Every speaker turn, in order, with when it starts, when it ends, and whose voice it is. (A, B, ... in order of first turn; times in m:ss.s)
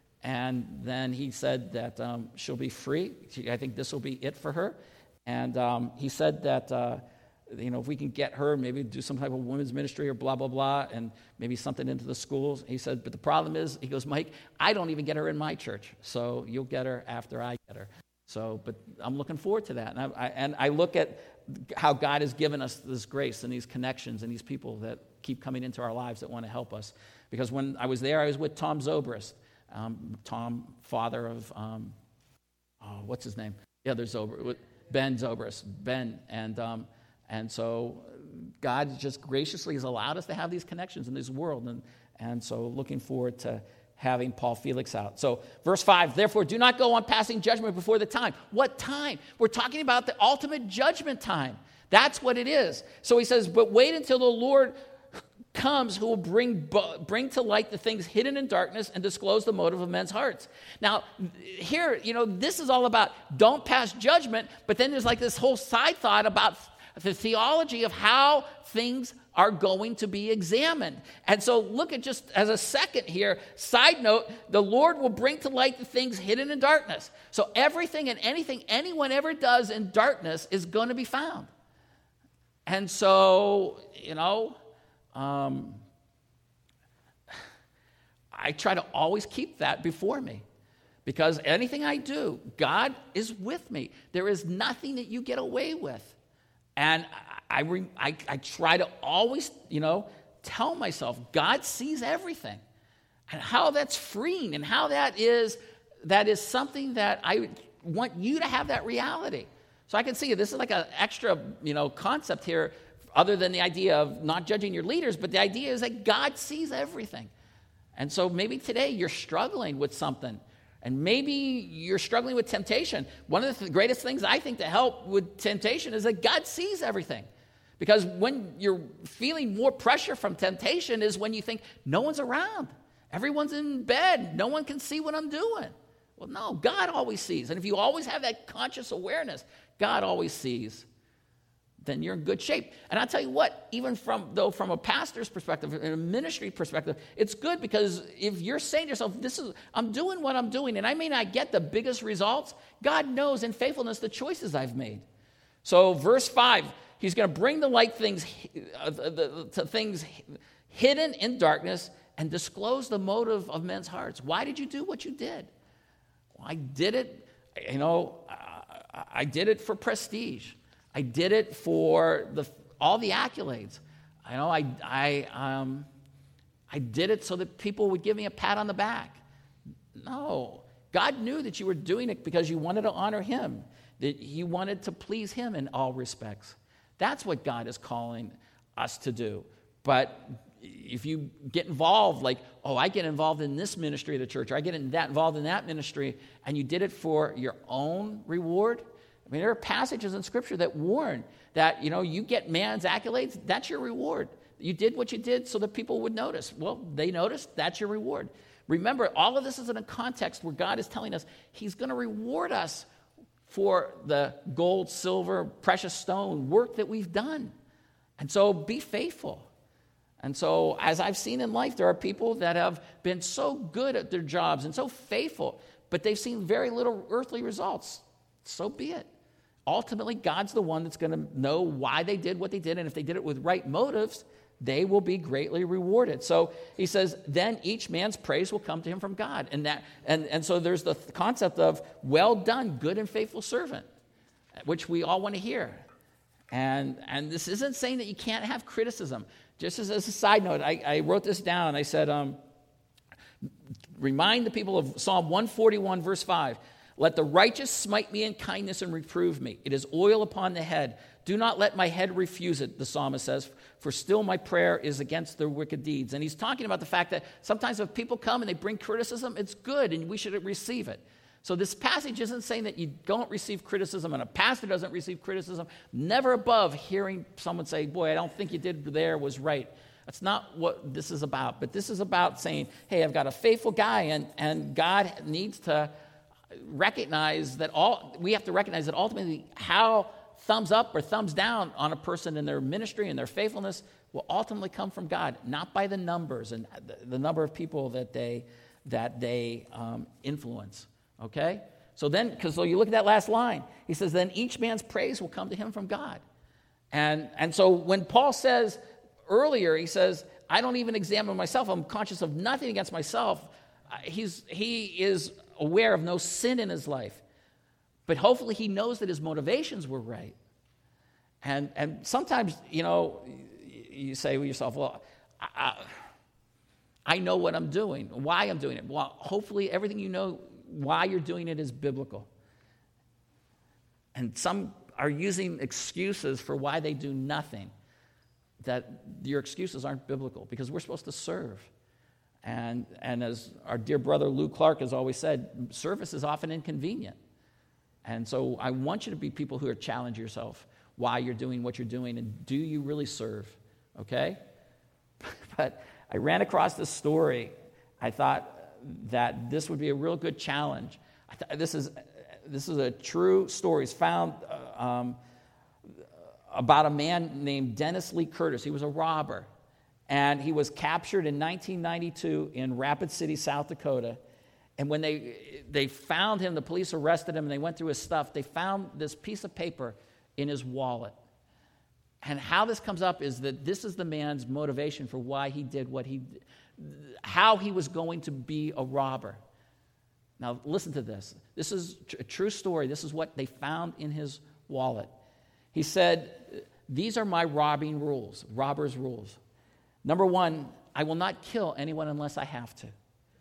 0:00.2-0:32.0 A
0:32.8-0:54.8 A
0:55.5-1:21.5 A
1:22.7-1:24.6 A
1:25.1-1:25.8 A
1:28.3-1:30.4 A
1:31.0-1:36.2 A
1:36.8-1:42.6 A
1:43.3-1:57.3 A
1:58.0-2:07.3 A
2:07.8-2:20.9 A
2:21.8-2:35.0 A
2:35.6-2:45.5 A
2:46.4-2:55.9 A
2:56.7-2:59.2 A
3:00.0-3:32.9 A
3:33.5-3:37.5 A
3:38.2-3:39.5 A
3:40.2-3:49.1 A
3:49.7-4:03.9 A
4:04.6-4:05.8 A
4:06.5-4:12.4 A
4:14.0-4:45.9 A
4:46.5-5:06.2 A
5:06.9-5:17.2 A
5:18.1-5:20.4 A
5:21.4-5:25.9 A
5:27.1-5:32.3 A
5:34.2-5:37.7 A
5:38.6-5:41.7 A
5:42.4-5:47.2 A
5:48.0-5:54.4 A
5:55.2-6:05.2 A
6:06.5-6:09.5 A
6:10.1-6:14.2 A
6:14.8-6:21.2 A
6:22.2-6:29.4 A
6:30.4-6:35.1 A
6:35.7-6:39.4 A
6:40.0-6:42.9 A